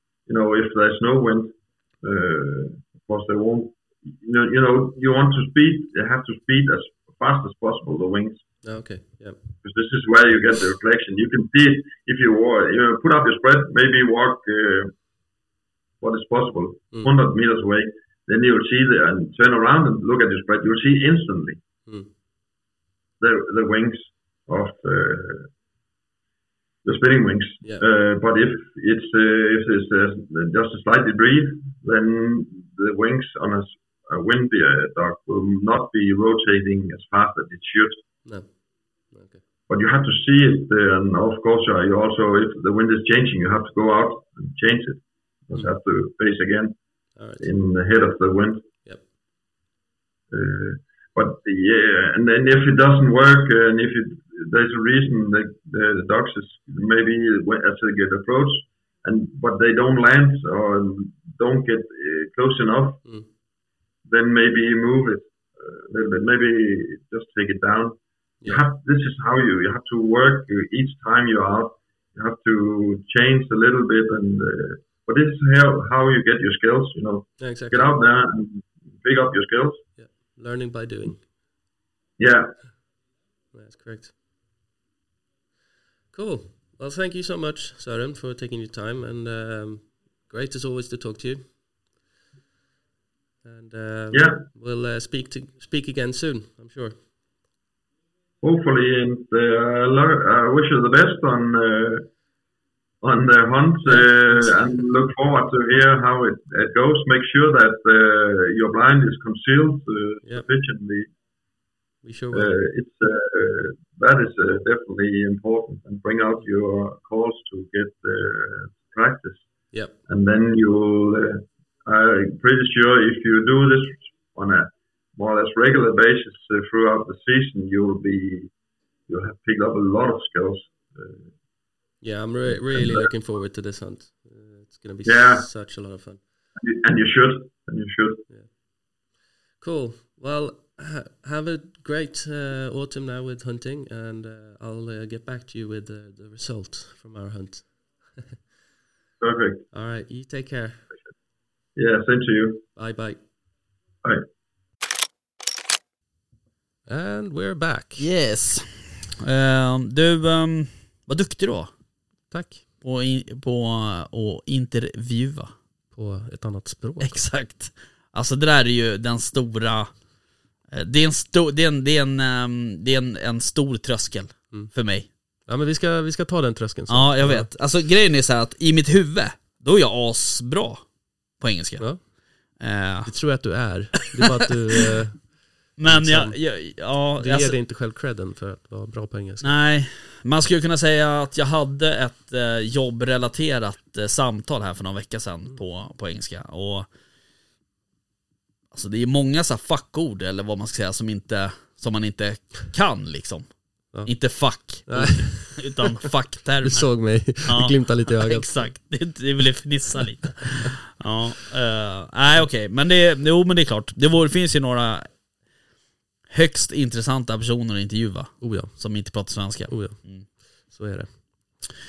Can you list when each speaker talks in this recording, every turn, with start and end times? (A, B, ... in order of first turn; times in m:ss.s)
0:00.3-0:08.5 A
0:08.6-0:09.4 B
0:09.6-0:14.9 A
0:16.0-0:21.6 A
0:21.9-0:22.1 B
0:23.2-0:25.5 A
0:26.8-0:38.0 A
0:38.2-0:39.4 B
0:39.7-0:46.8 A
0:47.2-0:47.5 B
0:47.4-0:48.7 A
0:50.3-1:03.1 A
1:04.0-1:19.8 A
1:17.4-1:18.0 B
1:20.0-1:21.3 B
1:22.2-1:22.7 A
1:23.5-1:24.1 B
1:26.1-1:31.6 B
1:33.4-1:37.0 B
1:34.1-1:34.4 A
1:38.4-1:42.1 A
1:43.0-1:51.1 A
1:43.8-1:44.8 B
1:52.0-1:52.6 B
1:52.3-1:59.4 A
2:00.1-2:08.5 A
2:09.1-2:11.3 A
2:12.0-2:16.2 B
2:12.7-2:13.0 A
2:15.0-2:15.5 A
2:16.6-2:18.2 A
2:19.6-2:28.3 B
2:29.2-2:29.6 A
2:29.7-2:30.8 B
2:31.8-2:32.6 A
2:32.8-2:33.2 B
2:36.9-2:38.1 B
2:38.0-2:41.7 C
2:42.3-2:42.6 B
2:42.8-2:45.5 C
2:45.9-2:47.3 B
2:47.0-2:49.9 C
2:50.7-2:55.1 C
2:55.5-2:57.5 B
2:56.9-3:00.8 C
3:01.4-3:01.9 C
3:02.6-3:03.1 C
3:03.0-3:06.4 B
3:05.8-3:07.6 C
3:07.2-3:09.6 B
3:09.4-3:16.9 C
3:18.7-3:35.1 C
3:24.8-3:25.9 B
3:26.6-3:28.5 B
3:36.3-3:40.2 C
3:38.4-3:38.7 B
3:39.7-3:41.6 B